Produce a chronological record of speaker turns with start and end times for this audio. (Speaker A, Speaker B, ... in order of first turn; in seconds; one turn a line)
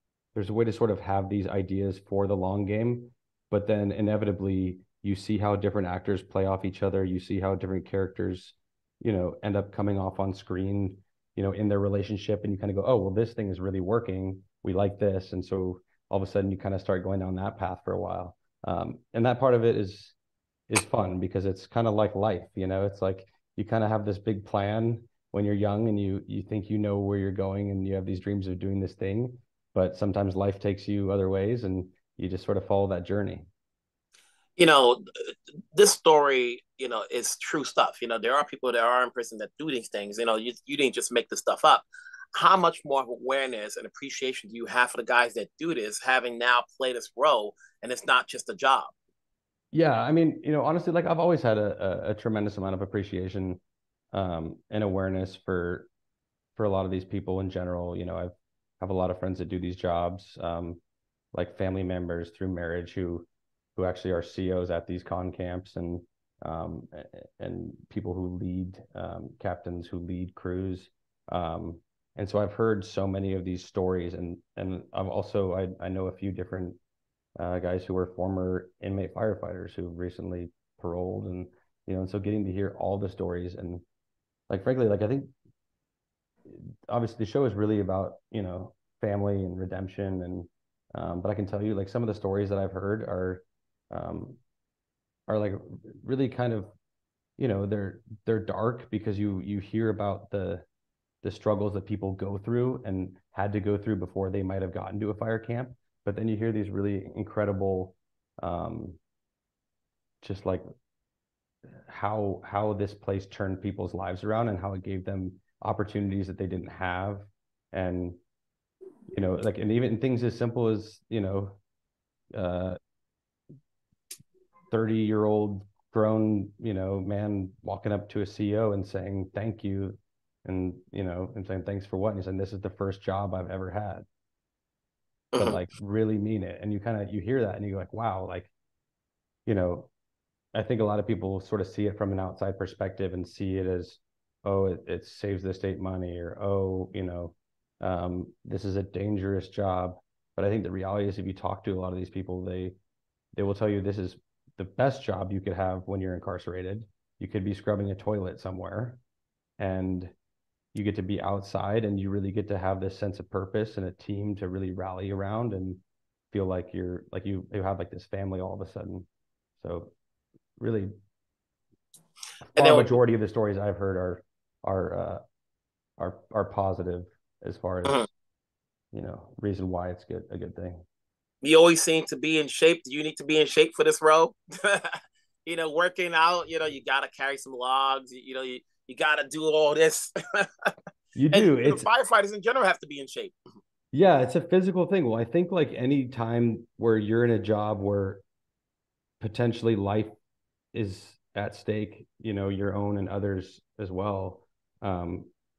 Speaker A: 0.3-20.1
Speaker A: 20.7-33.5
Speaker B: 34.6-48.9
Speaker A: 49.7-53.6
Speaker A: 54.1-55.9
Speaker A: 56.6-60.8
Speaker A: 61.3-76.8
Speaker A: 77.4-83.8
Speaker A: 84.5-85.3
Speaker A: 86.5-94.4
Speaker A: 95.3-96.7
Speaker A: 97.4-100.6
Speaker A: 101.2-109.0
Speaker A: 110.2-110.6
Speaker A: 111.8-118.2
Speaker A: 119.1-121.6
Speaker A: 122.3-122.8
Speaker A: 124.7-134.1
Speaker B: 135.3-135.6
Speaker A: 135.4-138.5
Speaker A: 139.4-139.9
Speaker A: 140.5-152.7
Speaker A: 153.3-159.0
Speaker A: 159.6-160.1
Speaker A: 160.7-165.8
Speaker A: 166.3-169.1
Speaker A: 169.6-169.9
Speaker A: 170.6-170.9
Speaker A: 172.4-175.2
Speaker B: 172.6-172.9
Speaker A: 176.0-178.1
Speaker A: 178.9-180.8
Speaker B: 181.4-190.7
Speaker A: 191.2-191.8
Speaker B: 191.3-193.3
Speaker A: 193.9-198.2
Speaker A: 199.2-200.1
Speaker A: 200.7-205.3